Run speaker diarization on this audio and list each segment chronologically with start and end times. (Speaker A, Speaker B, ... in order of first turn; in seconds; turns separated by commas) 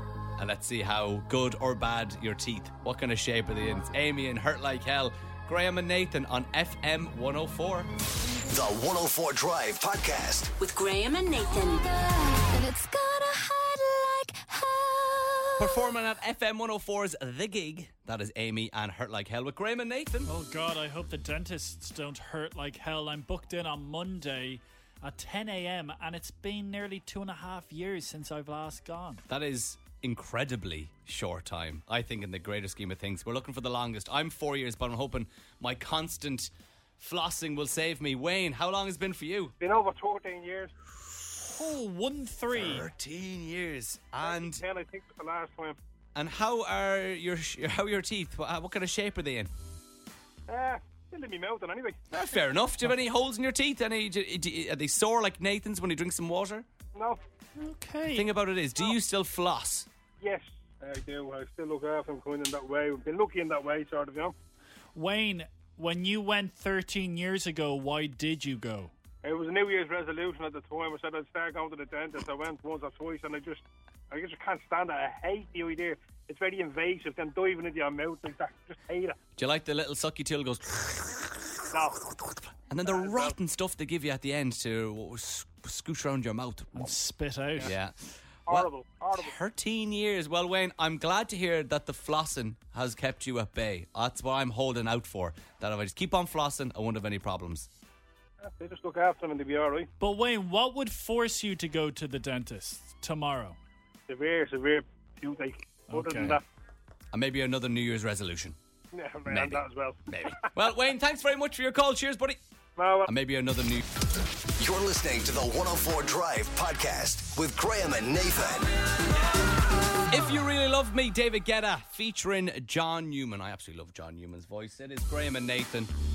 Speaker A: 0.4-7.9, Speaker B: 8.5-10.5, Speaker C: 10.6-15.9, Speaker A: 15.6-20.3, Speaker D: 20.2-29.2, Speaker A: 29.3-39.5, Speaker E: 39.6-40.7, Speaker D: 41.5-42.9, Speaker A: 42.5-44.6, Speaker E: 44.2-45.8, Speaker A: 46.1-49.5, Speaker E: 50.5-52.0, Speaker A: 52.1-56.6, Speaker E: 56.9-57.2, Speaker D: 57.6-58.3, Speaker A: 58.1-59.9, Speaker E: 60.2-64.3, Speaker D: 64.9-68.9, Speaker E: 69.2-79.2, Speaker A: 79.4-81.2, Speaker E: 81.7-82.0, Speaker A: 82.7-86.9, Speaker E: 82.8-83.3, Speaker D: 86.7-87.8, Speaker A: 87.6-97.7, Speaker E: 88.5-89.3, Speaker E: 98.4-99.9, Speaker D: 100.0-103.6, Speaker E: 104.1-106.4, Speaker D: 105.9-106.4, Speaker A: 106.1-106.4, Speaker A: 107.1-108.5, Speaker E: 108.9-110.5, Speaker A: 109.2-112.4, Speaker E: 112.8-113.1, Speaker A: 113.0-113.8, Speaker B: 114.6-118.7, Speaker A: 120.1-125.9